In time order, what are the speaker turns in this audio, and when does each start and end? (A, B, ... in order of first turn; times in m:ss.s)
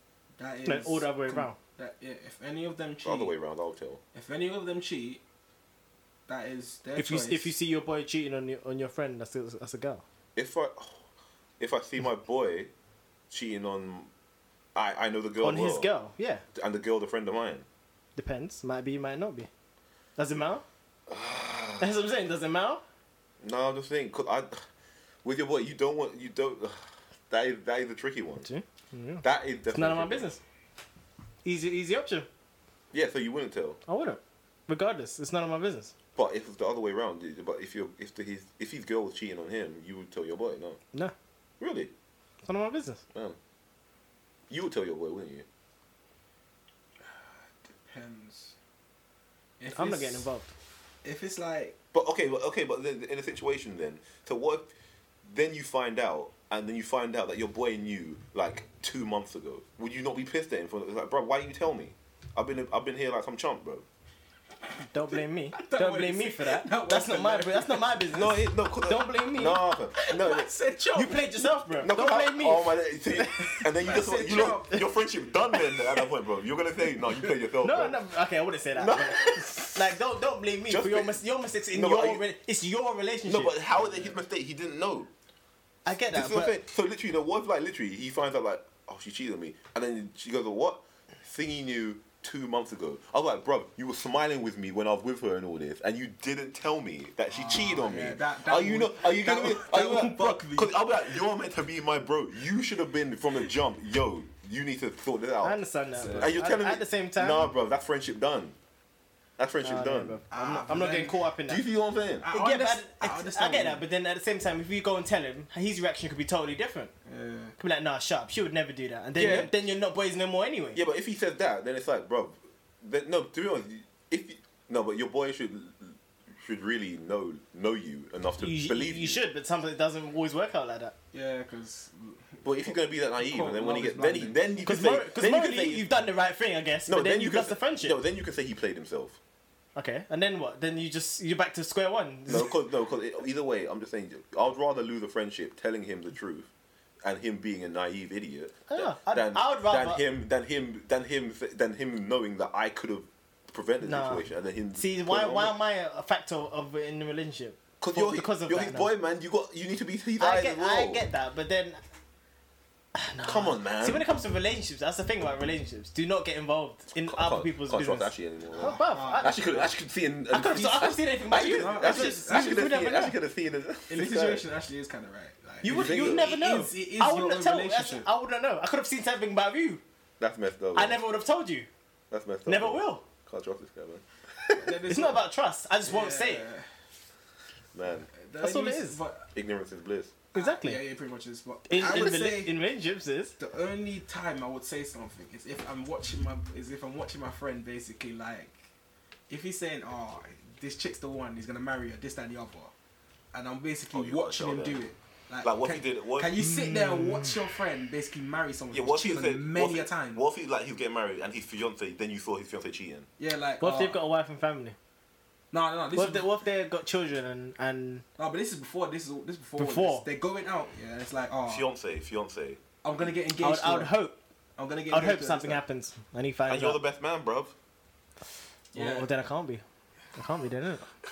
0:00.4-0:03.3 A
0:00.6-0:01.6 B
0:03.0-0:04.0 C
0:04.1-0:05.2 A
0:06.3-0:07.5 A
0:07.0-0:10.0 B
0:10.4-0:11.0 C
0:11.6-0:12.7 C
0:13.3-0:14.1 C
0:14.8-0:15.9 C
0:15.4-0:16.4 B
0:16.6-0:17.7 C
0:18.2-0:19.5 B
0:20.2-0:20.6 B
0:21.1-0:21.9 C
0:21.8-0:22.8 B
0:23.4-0:24.6 C
0:25.2-0:28.5 C
0:28.4-0:30.4 B
0:29.2-0:30.3 C
0:31.4-0:32.3 B
0:32.9-0:33.8 C
0:33.9-0:35.9 B
0:36.2-0:40.8 C
0:41.6-0:41.9 C
0:42.4-0:43.0 B
0:44.5-0:45.5 C
0:47.0-0:48.6 A
0:49.6-0:50.3 A
0:49.7-0:50.5 B
0:51.0-0:51.8 A
0:51.9-0:54.7 C
0:55.3-1:03.8 C
1:04.9-1:09.6 B
1:05.1-1:08.0 A
1:08.1-1:10.5 C
1:10.0-1:11.5 A
1:11.0-1:13.7 B
1:11.8-1:18.0 C
1:13.5-1:15.0 A
1:17.6-1:23.6 B
1:18.8-1:20.0 C
1:20.7-1:21.2 C
1:21.7-1:22.2 C
1:23.3-1:25.1 C
1:23.8-1:24.1 A
1:25.9-1:26.6 B
1:26.1-1:45.6 C
1:37.3-1:40.8 A
1:45.4-1:47.5 B
1:46.0-1:46.3 A
1:46.2-1:48.6 C
1:49.4-1:50.2 C
1:49.6-1:51.6 B
1:50.3-1:51.2 A
1:51.5-1:52.3 C
1:52.2-1:53.8 A
1:52.3-1:56.9 B
1:57.1-1:57.6 A
1:57.6-2:00.8 B
1:59.2-1:59.5 C
1:59.2-1:59.5 A
2:00.8-2:09.2 C
2:08.4-2:10.9 B
2:11.1-2:14.5 A
2:12.4-2:15.9 C
2:14.7-2:18.0 B
2:16.9-2:19.2 C
2:19.8-2:22.6 B
2:22.3-2:26.5 C
2:27.0-2:35.6 C
2:28.7-2:30.0 B
2:33.8-2:38.9 B
2:37.8-2:41.0 C
2:40.2-2:41.8 B
2:43.0-2:49.4 B
2:43.2-2:44.0 C
2:47.0-2:54.4 C
2:48.6-2:49.7 A
2:50.3-2:53.2 B
2:50.5-2:52.7 A
2:53.9-2:58.1 A
2:55.6-2:59.8 B
2:55.6-2:56.4 C
3:00.2-3:01.0 C
3:00.8-3:01.7 B
3:02.1-3:04.8 C
3:02.5-3:03.0 B
3:04.5-3:05.2 A
3:04.9-3:06.4 B
3:05.8-3:06.7 A
3:07.7-3:08.1 C
3:08.1-3:09.3 A
3:08.4-3:09.0 B
3:09.3-3:10.2 C
3:10.3-3:12.6 A
3:10.3-3:10.8 B
3:11.7-3:13.3 B
3:13.4-3:18.6 A
3:19.3-3:22.7 A
3:23.3-3:30.2 A
3:23.9-3:24.8 C
3:25.4-3:26.4 C
3:26.4-3:27.4 B
3:28.7-3:33.1 C
3:33.2-3:34.0 A
3:33.6-3:34.8 B
3:35.5-3:36.3 A
3:36.0-3:38.0 B
3:38.2-3:41.7 A
3:39.6-3:40.1 B
3:41.5-3:42.6 C
3:42.8-3:43.9 A
3:43.4-3:44.2 B
3:44.6-3:45.6 A
3:44.9-3:46.8 B
3:46.5-3:47.5 C
3:48.7-3:49.1 A
3:48.7-3:49.6 B
3:50.2-3:50.9 B